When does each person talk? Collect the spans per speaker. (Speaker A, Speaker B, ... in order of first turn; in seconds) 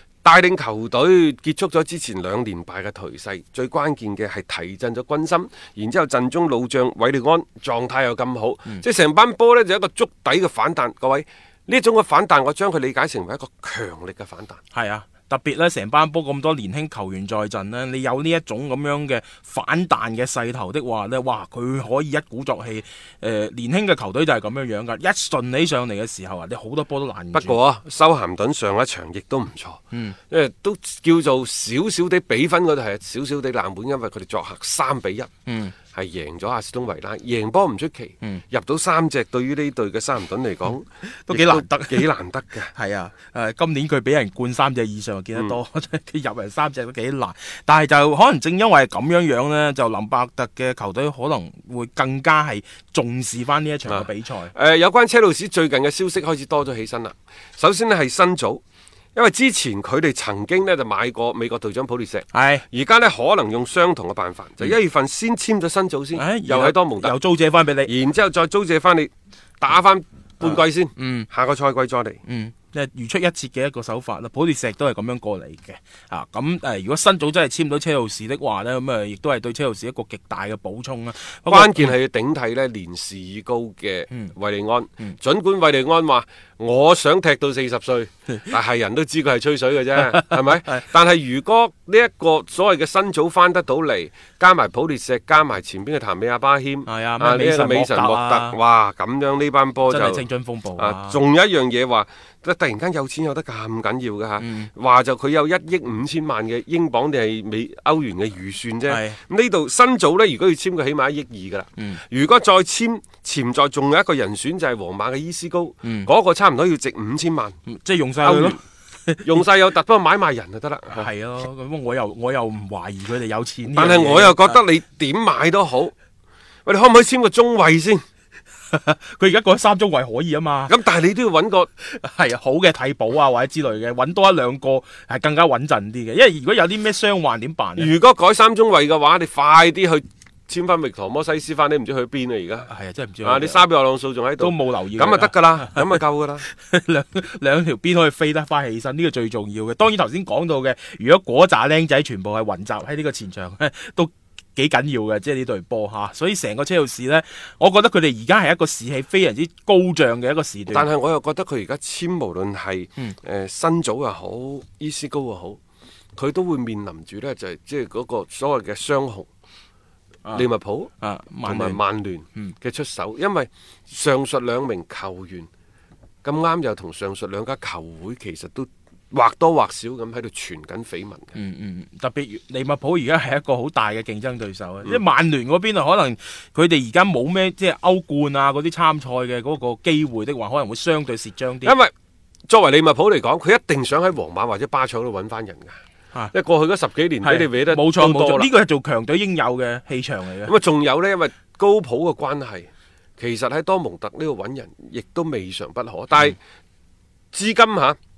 Speaker A: 0.2-14.6, 27.3-35.3, 35.9-42.7, 53.9-58.6, 59.1-67.2, 67.8-72.2, 81.5-100.2, 100.8-117.5, 118.2-118.6, 119.2-121.1, 123.7-125.9, 126.7-128.0, 130.7-131.7, 137.8-142.7, 143.2-146.4, 160.7-165.6, 166.2-169.3, 170.3-170.9, 171.4-175.5, 176.2-181.3, 191.6-191.9, 192.5-195.8, 196.3-198.5, 200.4-202.7, 203.2-206.4, 207.3-208.0
Speaker B: 14.7-27.6, 35.5-35.7, 41.0-42.1, 42.7-54.5, 62.3-62.6, 66.1-67.9, 70.4-71.3, 72.2-81.9, 90.1-90.5, 96.8-98.6, 99.9-101.2, 104.4-104.7, 108.9-109.2, 117.7-119.4, 120.9-124.6, 128.7-130.7, 131.8-137.9, 142.7-143.6, 144.4-160.9, 171.0-171.8, 181.3-191.7, 197.2-200.5